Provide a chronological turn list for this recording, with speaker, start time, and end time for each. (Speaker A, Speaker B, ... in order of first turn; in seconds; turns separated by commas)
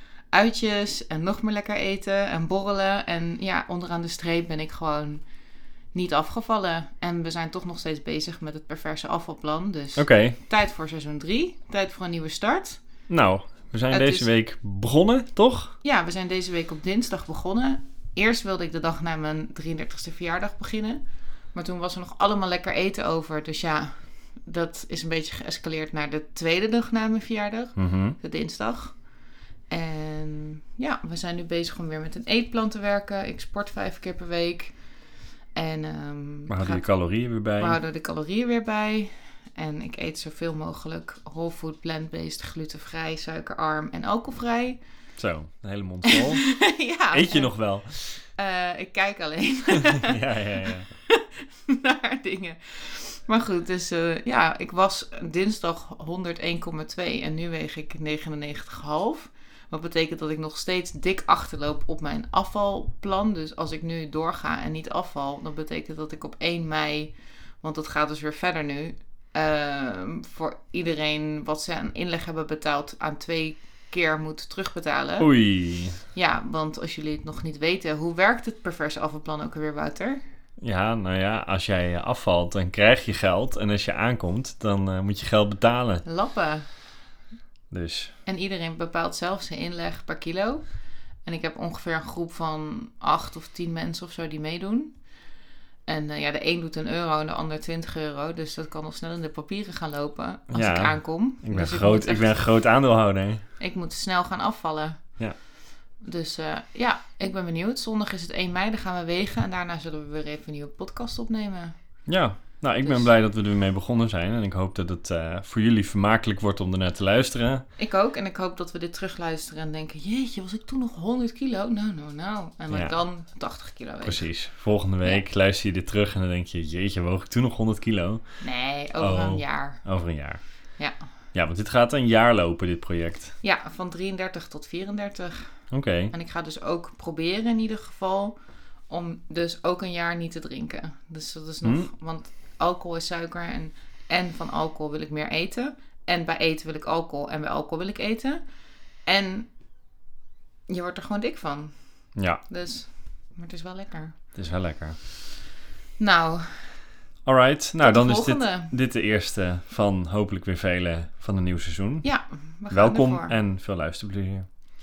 Speaker A: 0.3-5.2, Speaker A: 5.9-12.8, Speaker B: 10.0-10.4, Speaker B: 13.1-15.7, Speaker A: 13.9-14.3, Speaker A: 15.8-21.0, Speaker A: 21.5-29.1, Speaker B: 27.8-28.2, Speaker A: 29.7-34.8, Speaker A: 35.5-44.8, Speaker B: 36.5-37.8, Speaker B: 45.2-48.2, Speaker A: 46.1-50.2, Speaker B: 50.0-50.9, Speaker A: 51.1-75.4, Speaker B: 75.2-76.0, Speaker A: 76.1-80.2, Speaker B: 80.6-86.0, Speaker A: 86.0-86.7, Speaker B: 87.7-88.1, Speaker A: 88.2-90.7, Speaker A: 91.2-95.0, Speaker A: 95.9-102.4, Speaker B: 100.5-103.4, Speaker A: 103.6-105.2, Speaker A: 106.0-111.8, Speaker B: 112.1-117.6, Speaker A: 117.8-124.3, Speaker B: 122.7-122.9, Speaker B: 124.0-128.2, Speaker A: 128.4-129.8, Speaker B: 129.0-130.4, Speaker B: 131.3-133.3, Speaker A: 133.4-135.5, Speaker B: 135.7-136.1, Speaker A: 136.1-138.4, Speaker A: 138.9-148.4, Speaker A: 149.1-149.5, Speaker A: 150.7-151.8, Speaker B: 152.2-152.4, Speaker A: 152.3-154.2, Speaker B: 154.3-155.0, Speaker A: 156.0-156.8, Speaker B: 157.2-162.1, Speaker A: 157.8-158.7, Speaker A: 162.0-163.3, Speaker B: 162.7-164.5